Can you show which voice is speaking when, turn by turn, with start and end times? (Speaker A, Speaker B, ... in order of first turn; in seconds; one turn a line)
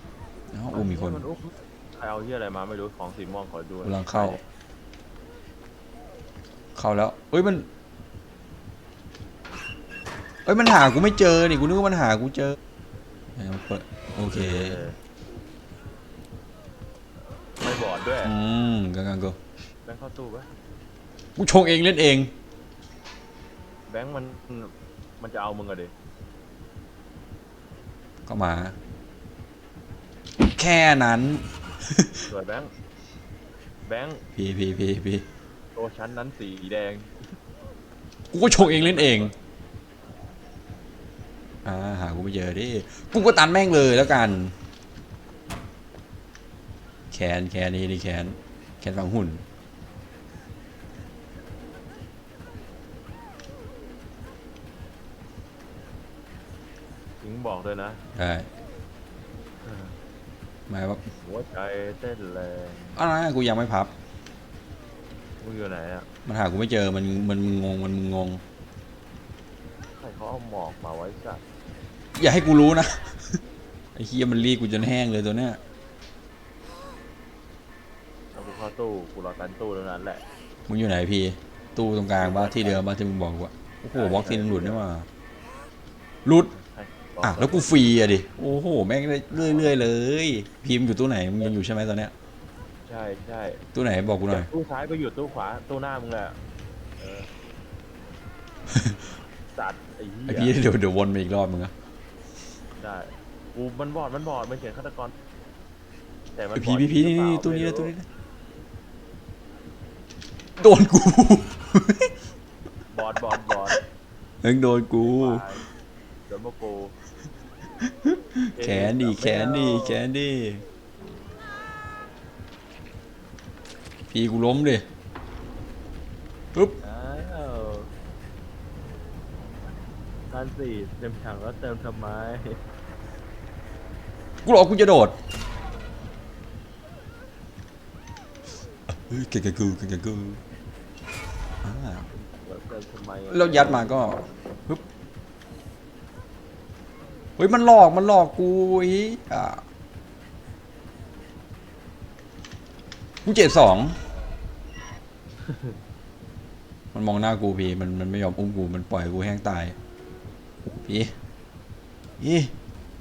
Speaker A: 0.5-1.3
Speaker B: 0.7-4.4
Speaker A: 3.8-4.4
Speaker A: 6.8-7.7
Speaker A: 10.4-12.6
Speaker A: 13.4-14.8
Speaker B: 14.3-15.0
Speaker B: 17.6-18.3
Speaker A: 18.2-19.4
Speaker B: 19.9-20.5
Speaker A: 21.4-22.3
Speaker B: 23.9-25.9
Speaker A: 28.3-28.8
Speaker A: 30.6-32.2
Speaker B: 32.2-32.7
Speaker B: 33.9-34.2
Speaker A: 34.4-35.3
Speaker B: 35.8-37.3
Speaker A: 38.3-39.3
Speaker B: 38.5-39.3
Speaker A: 41.6-44.5
Speaker A: 47.1-49.4
Speaker B: 57.2-58.0
Speaker A: 58.1-58.5
Speaker B: 59.6-60.0
Speaker A: 60.7-61.1
Speaker B: 61.2-63.0
Speaker A: 63.0-63.9
Speaker B: 65.4-66.1
Speaker A: 66.3-68.4
Speaker B: 70.0-71.4
Speaker A: 72.2-73.4
Speaker A: 74.0-75.6
Speaker B: 78.3-80.2
Speaker A: 80.7-85.1
Speaker B: 82.2-82.8
Speaker B: 83.9-84.8
Speaker A: 86.2-86.5
Speaker B: 86.5-87.8
Speaker A: 87.2-92.1
Speaker B: 92.9-93.6
Speaker A: 93.7-94.5
Speaker B: 94.3-96.4
Speaker B: 97.0-97.3
Speaker A: 98.7-99.0
Speaker B: 99.5-100.6
Speaker A: 100.3-101.7
Speaker B: 102.8-105.1
Speaker B: 106.3-107.9
Speaker A: 106.5-108.0
Speaker A: 110.6-112.1
Speaker B: 112.9-113.8
Speaker A: 114.4-115.4
Speaker B: 115.0-115.7
Speaker B: 116.3-117.0
Speaker A: 117.9-120.7
Speaker B: 118.6-120.0
Speaker A: 124.1-124.8
Speaker B: 126.8-127.9
Speaker B: 130.3-132.6
Speaker A: 134.4-135.2
Speaker A: 138.9-140.4
Speaker A: 141.6-142.1
Speaker B: 142.1-144.2
Speaker A: 143.3-144.8
Speaker A: 147.4-149.6
Speaker A: 153.2-154.0
Speaker A: 156.9-159.8
Speaker A: 160.8-161.2
Speaker A: 162.2-162.5